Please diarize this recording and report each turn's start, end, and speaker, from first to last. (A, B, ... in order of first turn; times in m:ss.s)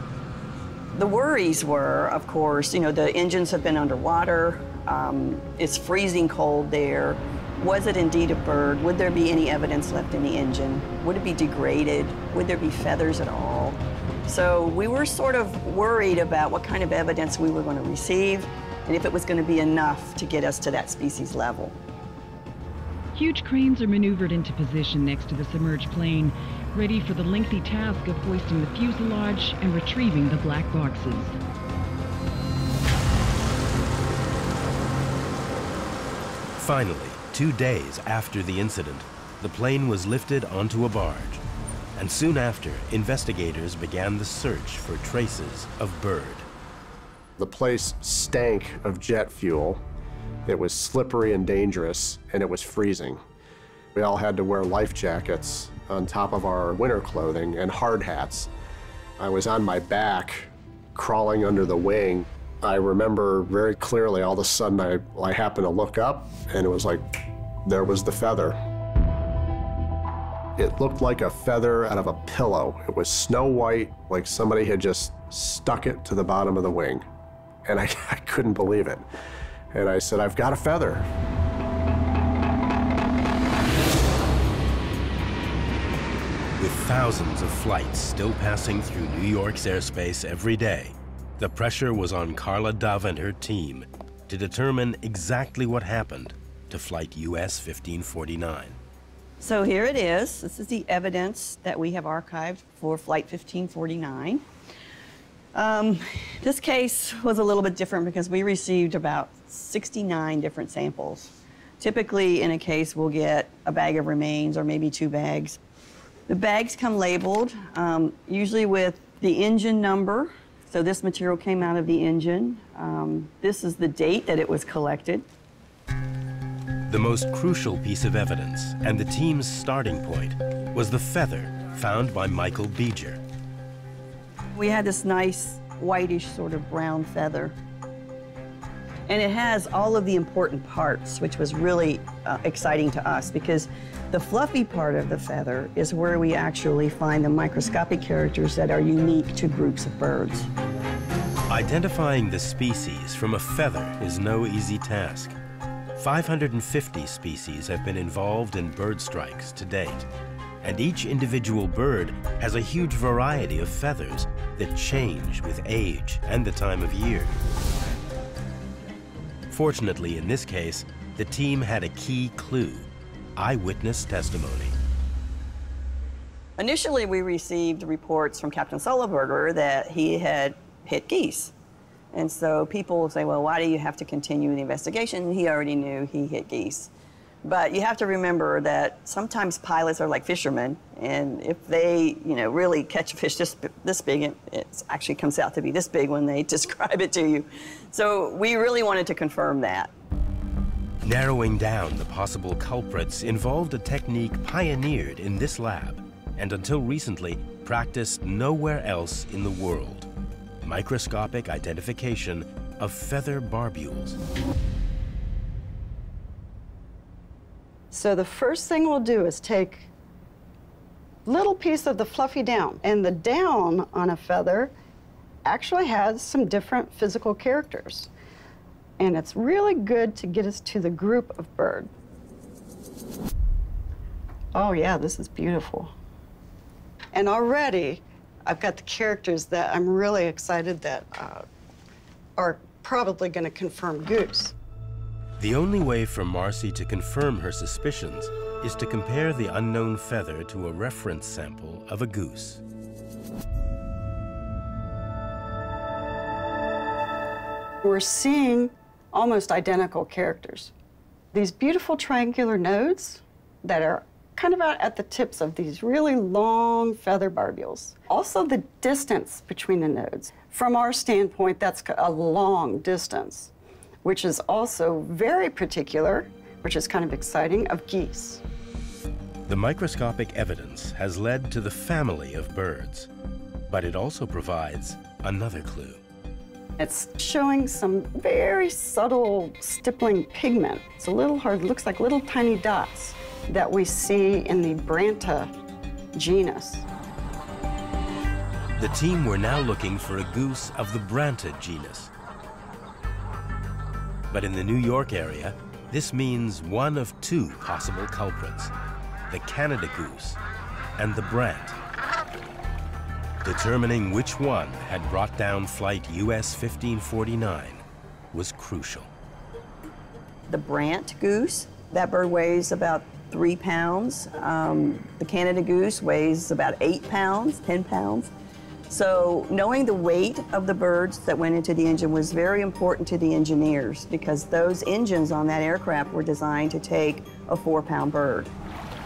0:00.9-0:21.8 A
0:23.1-0:31.4 B
0:36.6-0:41.4 C
0:42.0-0:46.5 C
0:47.4-0:49.8 D
0:50.4-0:53.2 D
0:53.9-0:58.5 D
0:59.2-1:07.0 D
1:07.6-1:08.6 D
1:10.6-1:17.0 D
1:17.6-1:19.0 D
1:19.7-1:21.0 D
1:26.6-1:38.8 C
1:39.4-1:44.4 A
1:45.5-1:55.6 A
1:56.3-2:05.2 A
2:06.9-2:13.2 C
2:14.5-2:17.5 A
2:19.1-2:30.5 A
2:31.5-2:35.4 C
2:36.0-2:40.1 C
2:40.6-2:47.4 C
2:49.5-2:54.7 C
2:56.6-3:01.5 A
3:02.1-3:06.9 A
3:07.4-3:19.9 A
3:21.0-3:30.1 C
3:30.6-3:34.2 C
3:37.9-3:39.9 E
3:41.2-3:44.7 E
3:45.4-3:48.1 E
3:49.0-3:51.9 E
3:54.5-3:55.9 E
3:57.1-4:01.4 E
4:02.4-4:04.5 E
4:05.4-4:12.6 C
4:17.8-4:20.7 E
4:21.3-4:33.5 E
4:34.0-4:38.4 E
4:39.5-4:43.1 C
4:43.7-4:46.0 C
4:46.8-4:55.5 E
4:56.1-4:56.8 E
4:58.8-5:02.1 C
5:04.3-5:08.7 C
5:09.3-5:10.4 C
5:11.0-5:11.8 C
5:13.4-5:19.1 C
5:20.5-5:28.3 A
5:28.9-5:38.5 A